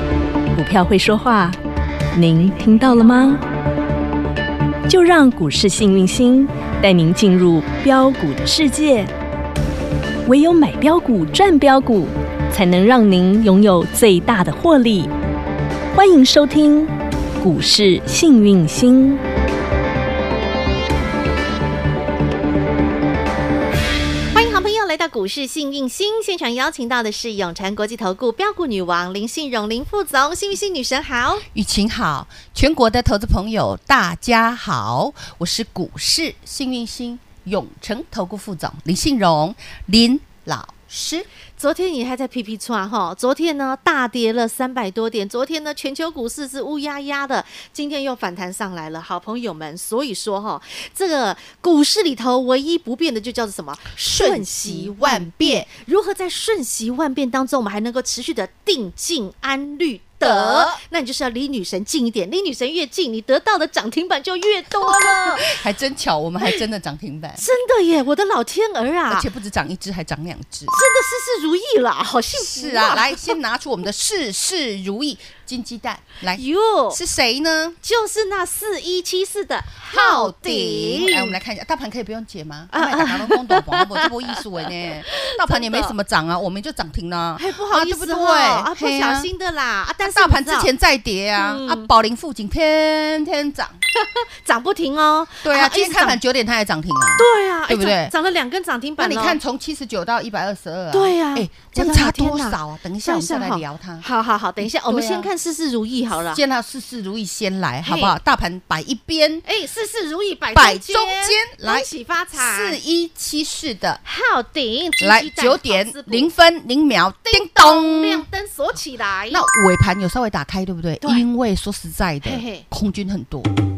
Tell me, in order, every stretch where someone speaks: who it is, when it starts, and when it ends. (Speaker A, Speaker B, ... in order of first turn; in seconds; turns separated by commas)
Speaker A: 0.5-1.6, Speaker A: 2.1-3.5, Speaker A: 4.9-9.1, Speaker A: 10.2-15.1, Speaker A: 15.9-19.2, Speaker B: 24.3-31.4, Speaker C: 31.5-41.3, Speaker B: 41.6-65.5, Speaker C: 54.0-55.6, Speaker C: 60.2-60.8, Speaker C: 64.8-67.4, Speaker B: 67.4-69.3, Speaker C: 69.1-70.7, Speaker B: 70.7-73.3, Speaker C: 72.3-77.8, Speaker B: 76.3-77.0, Speaker B: 77.8-81.4, Speaker C: 79.9-89.3, Speaker B: 82.7-85.9, Speaker B: 87.4-90.7, Speaker C: 90.0-93.8, Speaker B: 91.3-91.9, Speaker B: 93.9-96.2, Speaker C: 95.4-98.1, Speaker B: 97.2-99.4, Speaker C: 99.0-104.0, Speaker B: 100.9-106.4, Speaker C: 104.6-105.3, Speaker C: 106.3-109.4, Speaker B: 107.8-108.2, Speaker B: 109.4-112.8, Speaker C: 110.5-114.0, Speaker B: 114.0-116.3, Speaker C: 115.0-118.3, Speaker B: 117.2-119.4, Speaker C: 119.3-123.5, Speaker B: 122.2-122.6